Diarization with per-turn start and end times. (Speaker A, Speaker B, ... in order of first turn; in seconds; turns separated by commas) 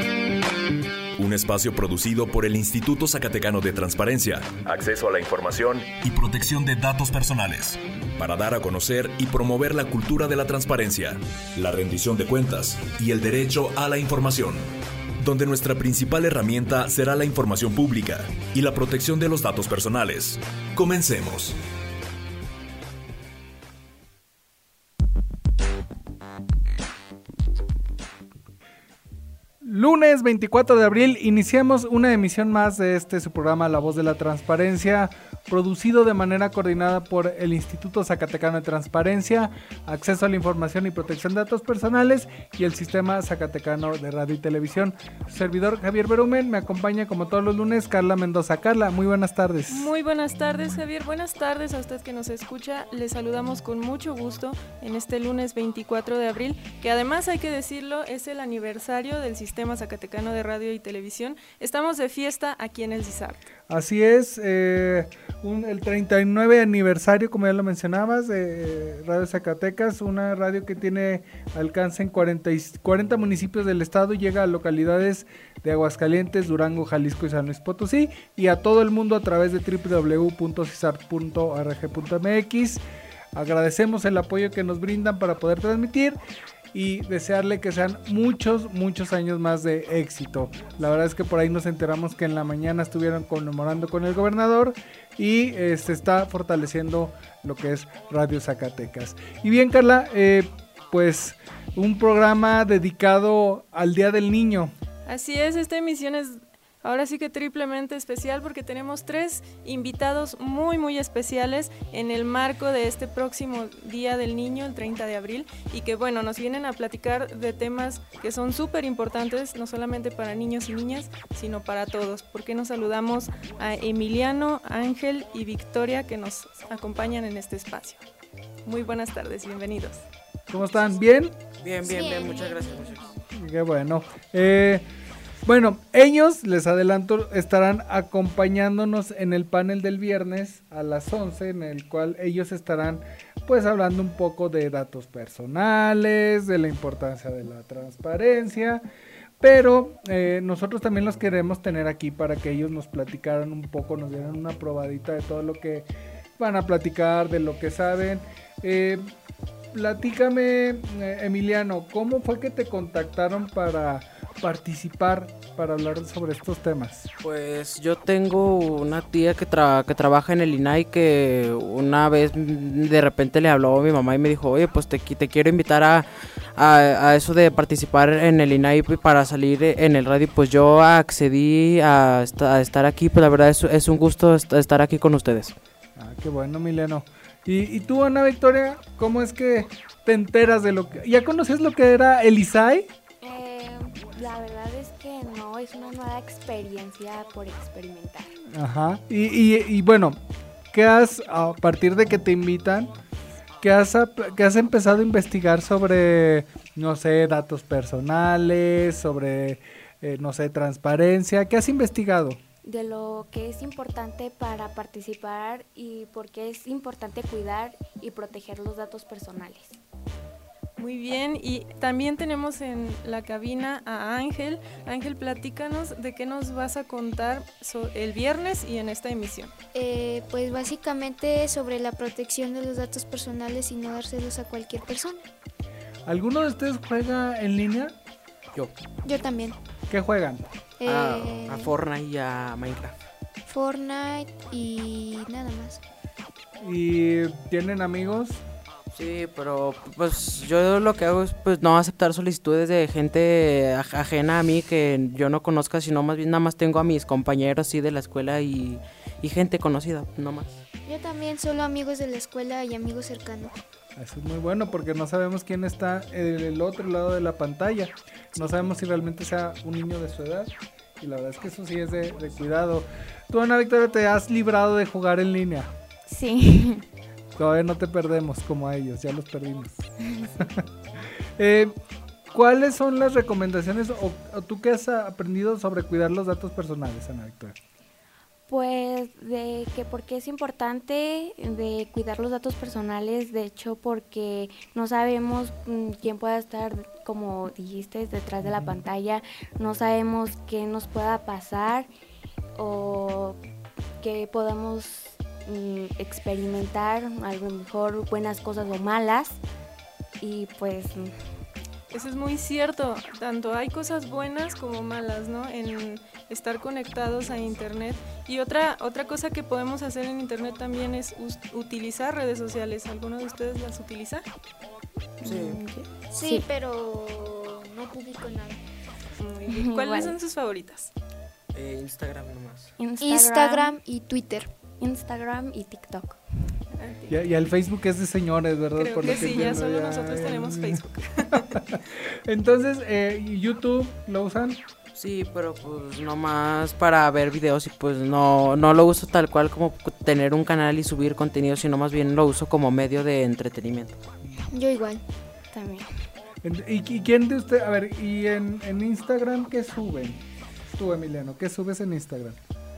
Speaker A: 1.2-14.6, Speaker A: 15.2-21.6, Speaker B: 29.6-49.9, Speaker C: 49.7-63.5, Speaker B: 63.7-86.2, Speaker B: 86.7-104.7, Speaker C: 105.1-128.0, Speaker C: 128.7-130.1, Speaker B: 130.5-131.4, Speaker D: 131.6-133.1, Speaker E: 131.8-133.2, Speaker B: 133.3-134.8, Speaker B: 135.4-148.9, Speaker B: 149.4-159.1, Speaker B: 159.7-167.1, Speaker D: 167.2-185.6, Speaker B: 186.0-192.9, Speaker F: 193.2-198.4, Speaker B: 198.5-200.2, Speaker B: 200.7-202.9, Speaker B: 203.6-212.4, Speaker F: 212.6-219.8, Speaker C: 220.8-229.5, Speaker E: 229.7-235.2, Speaker B: 236.1-238.0, Speaker E: 239.0-239.6, Speaker B: 239.9-240.5, Speaker E: 240.8-241.7, Speaker D: 240.8-243.1, Speaker E: 243.5-245.8, Speaker B: 246.6-248.4, Speaker D: 248.9-260.6, Speaker E: 260.9-263.6, Speaker B: 264.0-275.7, Speaker F: 276.1-276.9, Speaker B: 277.4-281.8, Speaker F: 280.0-280.3, Speaker B: 282.3-287.6, Speaker F: 288.5-301.9, Speaker B: 298.4-298.8, Speaker F: 302.6-303.4, Speaker F: 304.0-309.4, Speaker F: 310.2-311.2, Speaker C: 311.9-324.2, Speaker F: 325.2-326.5, Speaker D: 325.2-325.6, Speaker E: 326.1-328.6, Speaker C: 329.2-330.9, Speaker F: 329.5-330.1, Speaker D: 331.5-332.7, Speaker F: 332.8-333.8, Speaker E: 333.0-334.5, Speaker F: 334.8-336.2, Speaker C: 336.8-337.2, Speaker B: 337.1-344.6, Speaker C: 338.8-341.5, Speaker D: 344.9-354.0, Speaker E: 354.5-355.0, Speaker F: 355.5-356.1, Speaker B: 356.4-362.4